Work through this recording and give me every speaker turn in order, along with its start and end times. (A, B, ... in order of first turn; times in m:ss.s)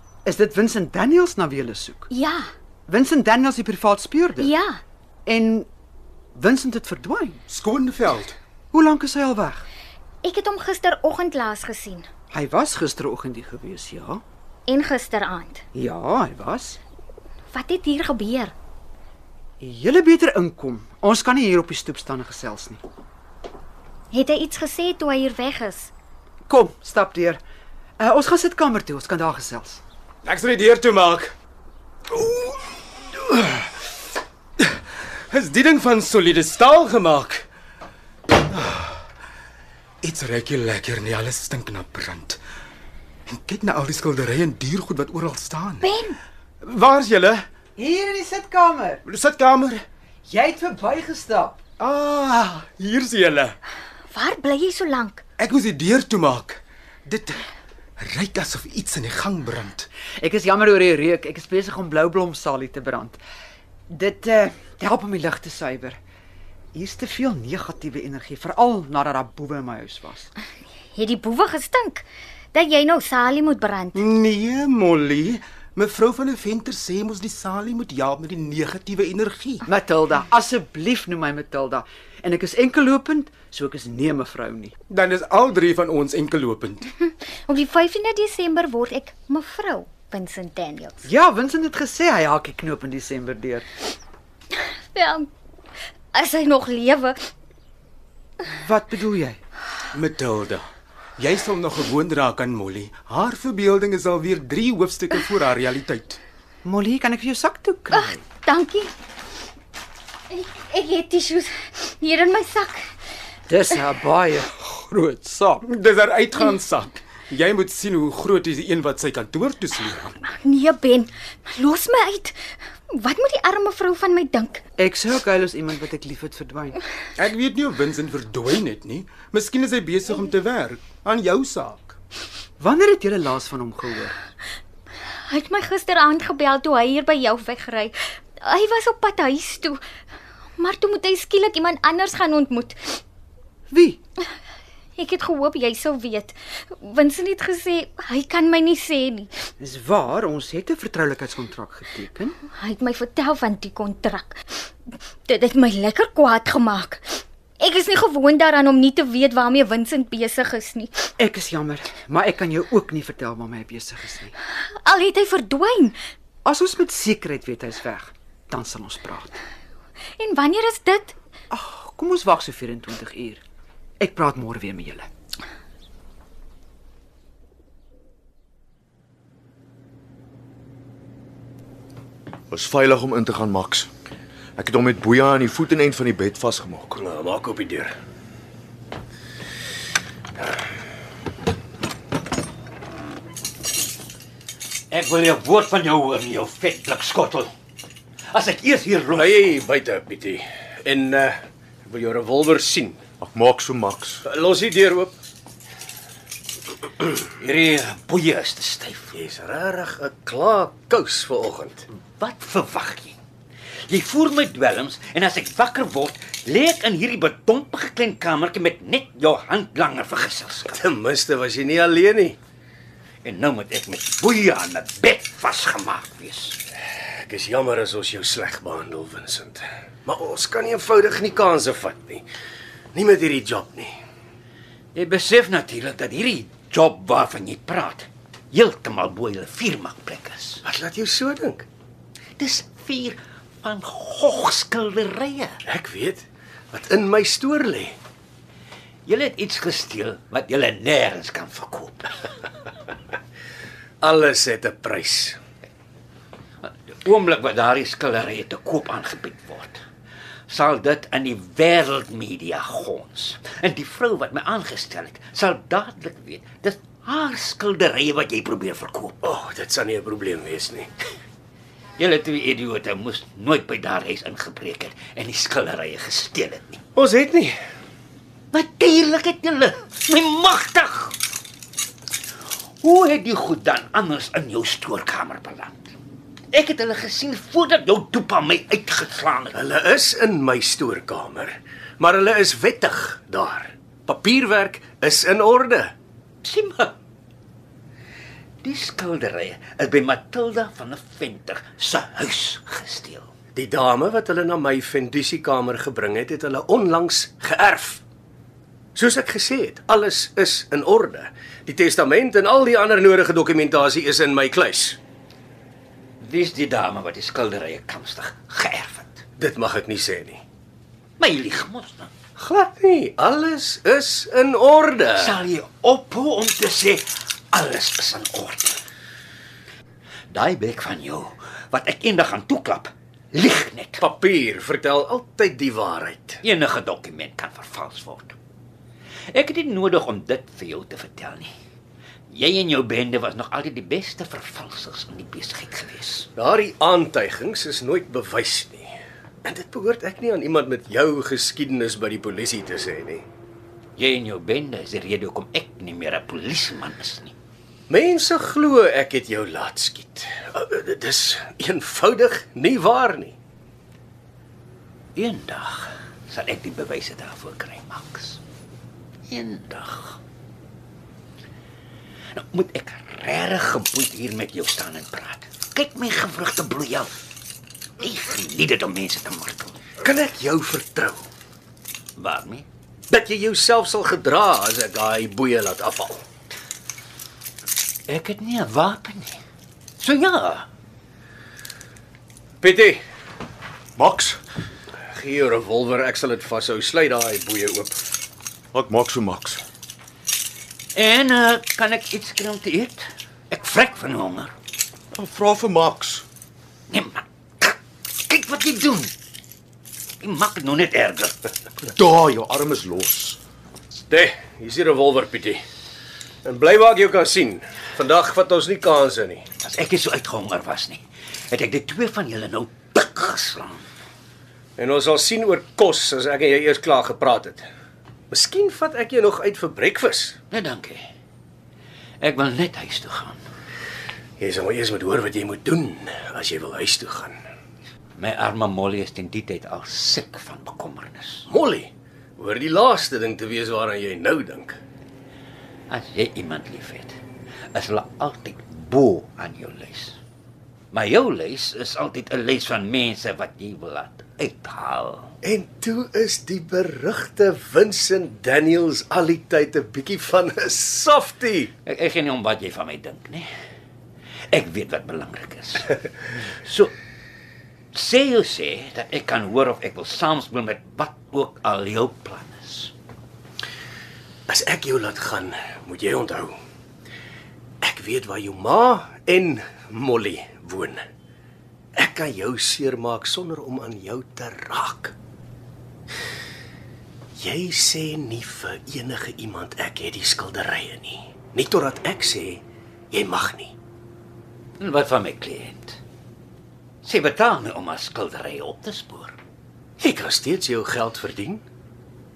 0:00.2-0:02.1 A
0:02.1-0:02.5 B
0:02.9-0:04.5 A
0:04.4-0:04.8 B
0:05.2-0:05.7 A
0:06.3-0:07.4 A
0:07.5-0:08.4 C
0:08.7-0:09.6 A
0:10.2-0:12.1 B
0:12.3-0:14.2 A
0:14.7-0:15.6 B
0:15.7-0:16.8 A
0:17.5-0:18.5 B
0:19.6-0:22.8 A
0:24.1-0:25.9 B
0:26.5-0:27.4 A
0:28.0-0:29.8 A
0:30.2-0:31.3 C
0:32.1-0:32.6 C
0:33.3-0:33.6 C
0:35.3-0:37.4 C
0:38.5-0:39.0 C
0:40.0-0:42.4 C
0:43.3-0:45.8 C
0:45.8-0:46.2 B
0:46.6-0:47.4 C
0:47.8-0:49.0 A
0:49.0-0:49.8 C
0:50.3-0:51.6 A
0:51.8-0:53.5 C
0:54.1-0:55.2 B
0:55.4-0:57.4 C
0:58.0-0:59.9 C
1:00.2-1:03.2 A
1:03.9-1:06.0 A
1:06.7-1:10.3 A
1:10.9-1:14.0 B
1:13.9-1:19.6 C
1:19.6-1:24.7 A
1:24.9-1:26.8 C
1:27.0-1:31.0 B
1:31.0-1:33.7 A
1:34.6-1:35.3 B
1:36.1-1:37.3 B
1:38.5-1:39.4 A
1:39.9-1:40.6 C
1:41.2-1:46.2 C
1:46.6-1:48.2 A
1:47.9-1:48.9 B
1:50.3-1:52.9 B
1:53.5-1:55.6 A
1:55.6-2:00.1 C
2:00.2-2:04.6 B
2:04.8-2:06.8 A
2:07.2-2:11.9 C
2:12.6-2:14.1 A
2:15.3-2:19.8 B
2:20.6-2:23.0 B
2:23.7-2:24.0 A
2:25.0-2:29.3 B
2:29.6-2:32.4 A
2:32.5-2:34.7 B
2:35.2-2:41.1 B
2:41.2-2:44.3 A
2:44.8-2:46.0 B
2:46.4-2:49.4 A
2:50.2-2:51.1 B
2:51.5-2:53.4 A
2:54.0-2:55.1 A
3:02.5-3:03.9 D
3:04.6-3:07.0 D
3:07.0-3:07.9 E
3:14.9-3:17.5 F
3:18.3-3:19.4 F
3:19.1-3:23.0 E
3:23.2-3:24.2 D
3:24.2-3:25.1 E
3:27.2-3:29.1 F
3:29.1-3:31.9 E
3:32.2-3:33.2 F
3:33.9-3:40.8 F
3:40.7-3:42.4 E
3:43.2-3:46.6 F
3:47.2-3:52.2 E
3:52.9-3:53.9 E
3:54.9-4:00.6 F
4:00.6-4:01.7 E
4:02.4-4:05.6 F
4:05.7-4:08.0 E
4:09.0-4:12.1 F
4:14.0-4:15.4 E
4:16.6-4:19.8 F
4:20.5-4:29.2 F
4:29.2-4:30.9 E
4:32.0-4:36.8 F
4:37.0-4:37.6 E
4:38.5-4:41.1 F
4:42.8-4:45.9 F
4:46.5-4:49.6 F
4:49.5-4:55.9 E
4:56.4-4:56.9 F
4:58.6-5:03.3 F
5:03.5-5:08.0 E
5:09.0-5:15.0 E
5:16.2-5:19.2 F
5:19.4-5:20.4 E
5:21.2-5:22.1 F
5:22.4-5:25.4 E
5:25.2-5:28.8 F
5:30.3-5:34.0 F
5:34.0-5:36.4 E
5:36.4-5:38.4 F
5:39.3-5:41.5 F
5:42.3-5:46.3 F
5:46.4-5:48.9 E
5:49.4-5:53.2 E
5:54.0-5:57.3 F
5:57.9-6:03.4 E
6:05.1-6:08.4 F
6:09.3-6:10.2 F
6:12.3-6:17.2 F
6:18.0-6:19.8 F
6:20.0-6:21.2 E
6:22.2-6:22.6 F
6:23.1-6:26.2 E
6:28.1-6:29.4 F
6:30.0-6:30.6 F
6:32.6-6:33.0 E
6:34.0-6:34.4 D
6:35.1-6:38.0 E
6:38.7-6:39.6 D
6:40.9-6:44.5 F
6:45.1-6:46.2 D
6:46.9-6:49.1 F
6:50.2-6:51.5 F
6:51.8-6:53.4 D
6:54.1-6:55.6 E
6:56.4-6:59.4 E
6:59.6-7:03.8 F
7:04.8-7:07.6 E
7:08.3-7:10.4 E
7:10.5-7:11.0 F
7:12.2-7:13.4 F
7:14.4-7:17.4 E
7:18.2-7:21.4 F
7:21.5-7:24.8 E
7:25.9-7:27.2 F
7:27.7-7:30.2 F
7:30.9-7:35.3 F
7:35.4-7:41.7 E
7:41.8-7:43.5 F
7:44.5-7:46.0 F
7:46.6-7:46.9 F
7:47.9-7:52.9 F
7:54.5-7:56.6 E
7:57.8-8:01.0 E
8:02.0-8:05.1 E
8:07.4-8:13.7 E
8:14.8-8:16.0 F
8:17.0-8:19.4 F
8:20.0-8:21.6 E